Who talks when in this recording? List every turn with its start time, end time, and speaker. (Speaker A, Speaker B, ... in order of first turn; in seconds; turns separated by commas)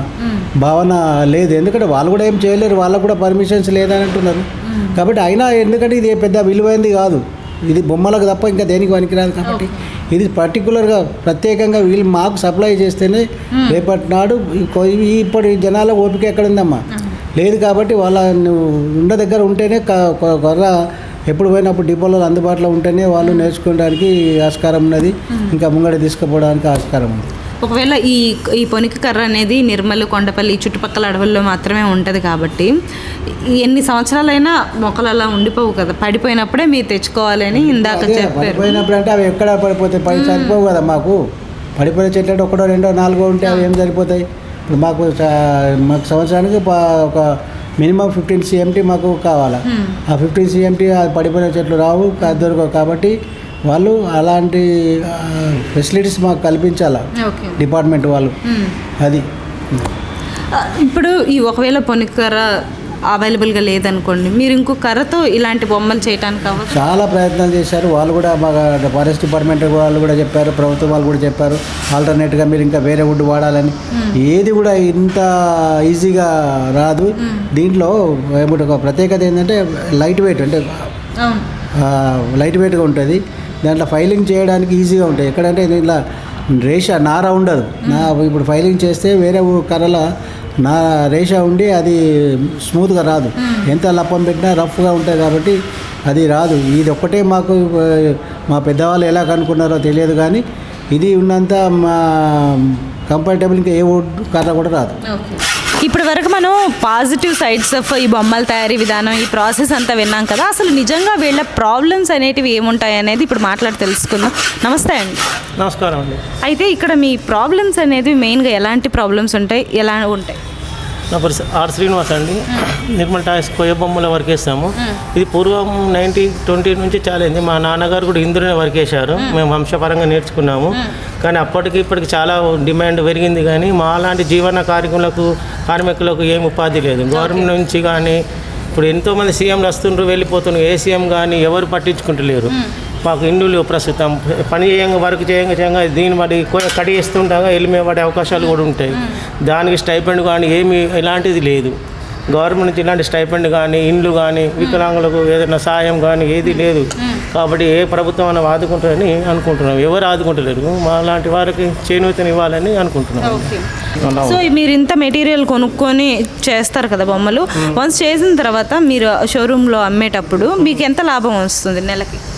Speaker A: 0.6-16.8, Speaker B: 4.7-5.0, Speaker B: 9.4-9.7, Speaker B: 13.5-13.8, Speaker A: 17.4-20.7, Speaker A: 21.3-27.3, Speaker B: 23.2-23.5, Speaker B: 27.6-32.7, Speaker B: 33.3-38.8, Speaker A: 37.5-41.2, Speaker B: 40.1-40.7, Speaker A: 41.8-53.1, Speaker B: 49.7-50.0, Speaker A: 53.7-57.0, Speaker B: 57.2-57.6, Speaker A: 57.6-58.3, Speaker B: 58.5-58.7, Speaker B: 60.5-62.5, Speaker B: 63.1-66.8, Speaker A: 66.7-80.9, Speaker A: 81.8-86.0, Speaker A: 86.6-90.0, Speaker B: 87.8-88.1, Speaker A: 90.6-95.5, Speaker B: 93.4-93.7, Speaker A: 96.1-100.4, Speaker A: 100.9-105.0, Speaker B: 105.0-115.2, Speaker C: 115.6-116.2, Speaker B: 116.4-120.4, Speaker C: 121.1-138.2, Speaker B: 137.1-137.5, Speaker C: 138.7-151.7, Speaker C: 152.3-163.5, Speaker B: 156.5-157.2, Speaker B: 163.2-163.7, Speaker C: 164.0-164.4, Speaker B: 164.2-172.2